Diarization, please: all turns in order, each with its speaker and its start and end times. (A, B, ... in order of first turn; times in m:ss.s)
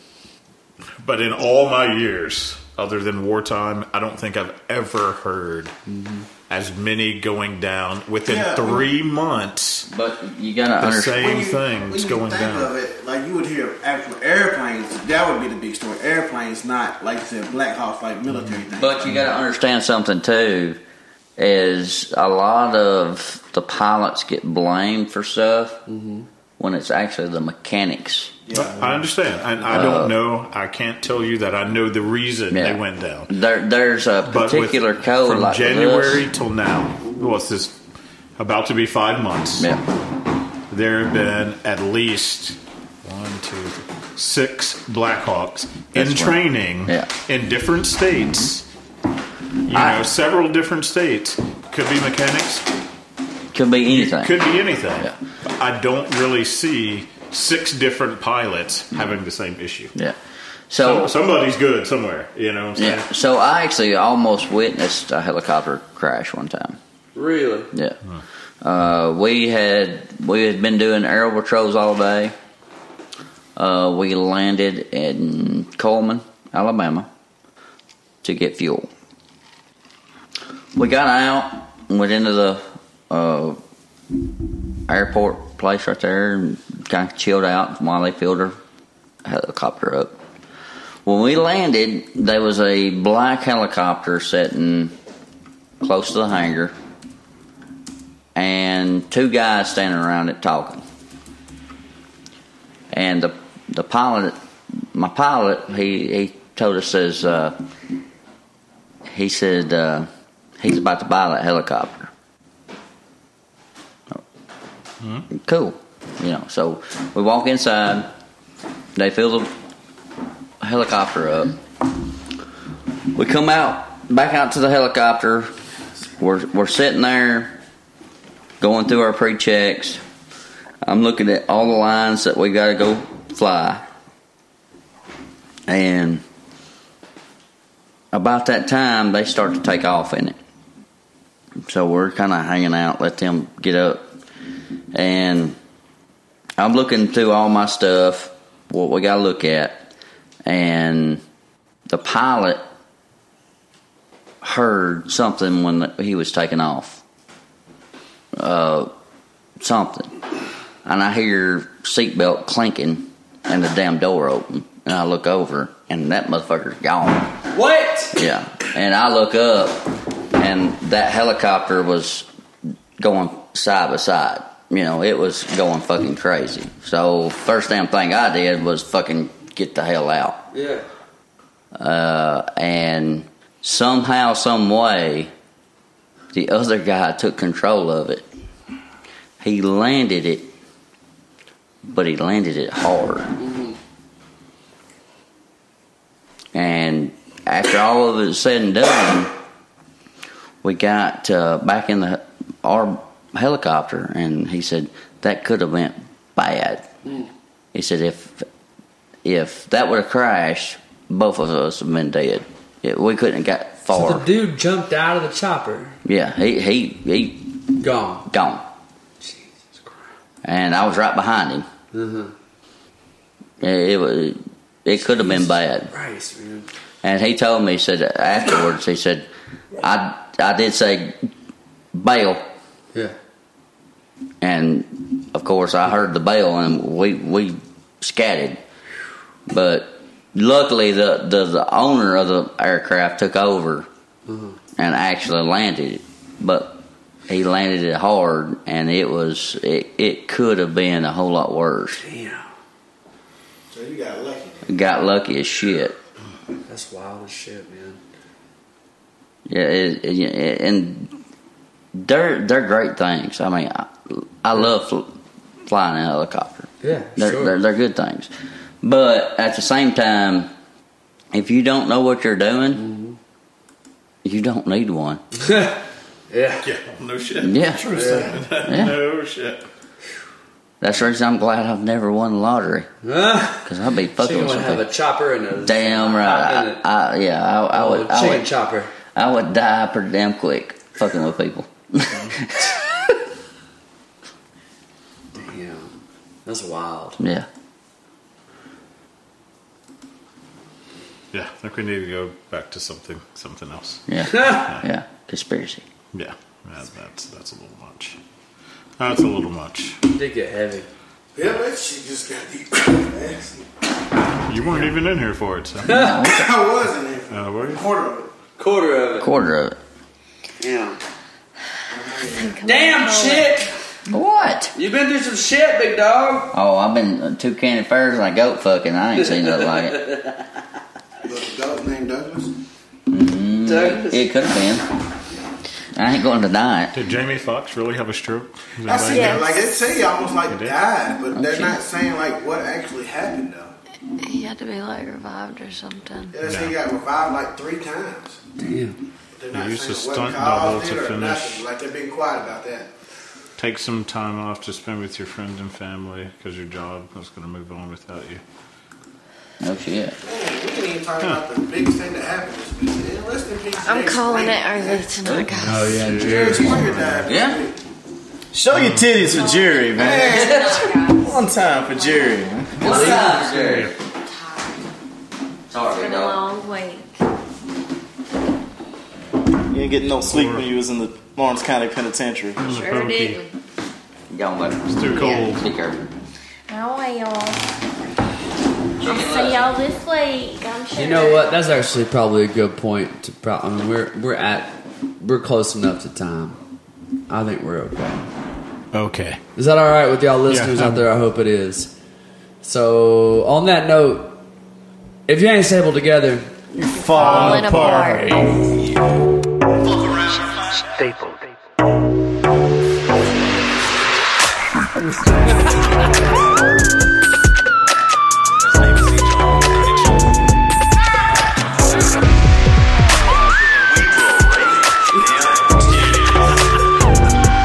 0:01.0-0:05.7 A
0:05.9-0:06.3 B
0:06.5-0:09.9 A
0:08.3-0:08.9 C
0:09.9-0:11.2 D
0:10.8-0:12.7 A
0:11.1-0:19.2 C
0:18.3-0:18.6 A
0:18.8-0:20.8 D
0:21.4-0:25.8 D
0:25.9-0:26.3 B
0:26.6-0:28.3 D
0:28.5-0:28.8 C
0:28.5-0:33.3 A
0:29.6-0:30.2 D
0:32.5-0:36.3 D
0:34.3-0:37.8 A
0:38.4-0:39.7 A
0:39.6-0:39.8 D
0:40.7-0:48.6 A
0:45.9-0:47.1 D
0:49.6-0:52.7 A
0:49.7-0:50.0 D
0:53.5-0:54.4 D
0:53.9-0:59.9 A
1:00.7-1:01.1 D
1:00.8-1:03.1 A
1:02.8-1:06.8 D
1:07.2-1:07.7 B
1:07.7-1:08.0 D
1:08.6-1:12.3 D
1:13.6-1:17.1 D
1:18.2-1:18.9 D
1:20.8-1:23.6 D
1:24.9-1:28.6 D
1:29.2-1:30.2 D
1:31.1-1:34.9 D
1:35.8-1:36.7 D
1:38.4-1:40.8 D
1:42.9-1:44.4 D
1:44.9-1:47.6 D
1:49.1-1:52.1 D
1:55.0-1:55.3 A
1:55.3-1:58.1 D
1:59.0-1:59.5 D
2:00.6-2:01.6 D
2:03.2-2:05.5 D
2:06.2-2:07.5 D
2:08.6-2:10.0 D
2:10.8-2:13.8 D
2:15.7-2:16.2 D
2:18.1-2:20.4 D
2:21.6-2:24.0 D
2:24.9-2:25.6 D
2:26.6-2:29.9 D
2:30.5-2:31.2 D
2:31.9-2:32.6 D
2:34.4-2:37.0 D
2:38.4-2:38.9 D
2:39.6-2:40.1 D
2:40.8-2:47.4 D
2:47.5-2:48.2 B
2:48.2-2:49.8 D
2:50.4-2:52.3 D
2:53.0-3:00.4 D
3:00.5-3:00.8 B
3:01.8-3:05.3 D
3:06.3-3:08.3 D
3:09.4-3:10.5 D
3:11.9-3:13.3 D
3:13.4-3:13.8 B
3:16.5-3:19.3 D
3:20.6-3:26.9 D
3:27.7-3:28.5 D
3:29.2-3:34.3 D
3:33.9-3:36.0 B
3:36.0-3:37.5 D
3:37.8-3:38.3 B
3:38.3-3:38.6 D
3:39.2-3:40.0 B
3:40.4-3:41.7 D
3:41.9-3:42.3 B
3:43.6-3:45.9 D
3:45.0-3:46.7 B
3:47.0-3:49.3 D
3:49.8-3:51.2 D
3:51.9-3:52.4 D
3:54.4-3:58.6 D
3:59.5-4:03.9 D
4:04.3-4:04.6 B
4:04.8-4:12.0 D
4:12.0-4:12.5 B
4:13.7-4:14.8 C
4:14.7-4:16.0 D
4:16.7-4:18.0 B
4:19.5-4:21.1 D
4:22.0-4:25.1 D
4:25.7-4:28.3 D
4:26.8-4:27.6 B
4:28.8-4:30.5 D
4:31.3-4:32.8 D
4:32.8-4:33.2 B
4:34.2-4:35.2 D
4:35.4-4:35.8 B
4:36.3-4:36.6 B
4:36.6-4:39.7 A
4:37.4-4:37.9 D
4:37.9-4:38.7 B
4:38.6-4:39.0 D
4:40.8-4:42.9 D
4:43.0-4:46.8 B
4:43.7-4:44.9 D
4:45.6-4:48.5 D
4:47.7-4:48.9 B
4:49.1-4:52.9 D
4:55.4-4:55.9 B
4:56.5-4:57.2 B
4:57.2-4:57.5 D
5:01.3-5:04.8 A
5:04.1-5:05.8 D
5:04.2-5:04.7 B
5:06.1-5:08.2 A
5:09.0-5:10.0 A
5:10.1-5:10.9 B
5:11.4-5:13.6 C
5:14.5-5:16.0 A
5:15.8-5:16.2 B
5:15.9-5:16.5 D
5:16.1-5:18.3 C
5:17.3-5:17.8 A
5:18.6-5:19.3 B
5:19.2-5:19.8 D
5:20.6-5:21.0 B
5:21.9-5:22.6 C
5:22.4-5:23.6 E
5:22.6-5:23.7 B
5:24.1-5:24.7 D
5:24.8-5:26.6 B
5:26.5-5:30.0 D
5:29.2-5:30.2 B
5:31.2-5:32.5 C
5:33.1-5:34.8 D
5:33.6-5:34.2 B
5:36.0-5:36.9 D
5:36.9-5:39.5 A
5:38.9-5:43.7 C
5:39.1-5:39.7 E
5:40.5-5:40.8 A
5:41.3-5:41.8 D
5:44.2-5:46.4 E
5:46.3-5:48.4 C
5:46.4-5:46.8 A
5:48.6-5:49.0 B
5:49.4-5:52.9 C
5:49.5-5:51.6 A
5:53.6-5:58.4 A
5:59.6-6:00.2 D
6:00.2-6:05.1 C
6:03.8-6:06.0 E
6:05.6-6:07.3 A
6:05.6-6:06.8 B
6:06.0-6:07.8 C
6:07.2-6:07.6 D
6:08.5-6:12.8 F
6:08.7-6:09.2 A
6:09.2-6:13.3 E
6:09.9-6:11.0 C
6:12.8-6:14.0 D
6:12.8-6:13.5 B
6:13.4-6:13.9 A
6:14.2-6:14.8 E
6:15.7-6:16.4 D
6:15.9-6:17.2 E
6:19.7-6:22.7 F
6:20.2-6:20.7 A
6:22.6-6:23.4 A
6:22.6-6:23.5 E
6:24.3-6:26.1 D
6:24.9-6:25.6 A
6:26.7-6:27.6 E
6:29.0-6:29.8 D
6:29.0-6:31.6 E
6:31.0-6:36.6 B
6:37.3-6:38.2 B
6:38.9-6:39.4 A
6:39.6-6:41.9 B
6:40.5-6:41.1 A
6:42.6-6:44.4 B
6:45.3-6:46.5 B
6:46.7-6:48.8 F
6:47.0-6:48.3 A
6:47.1-6:48.3 E
6:55.0-6:55.7 B
6:58.8-6:59.9 A
7:03.8-7:06.3 A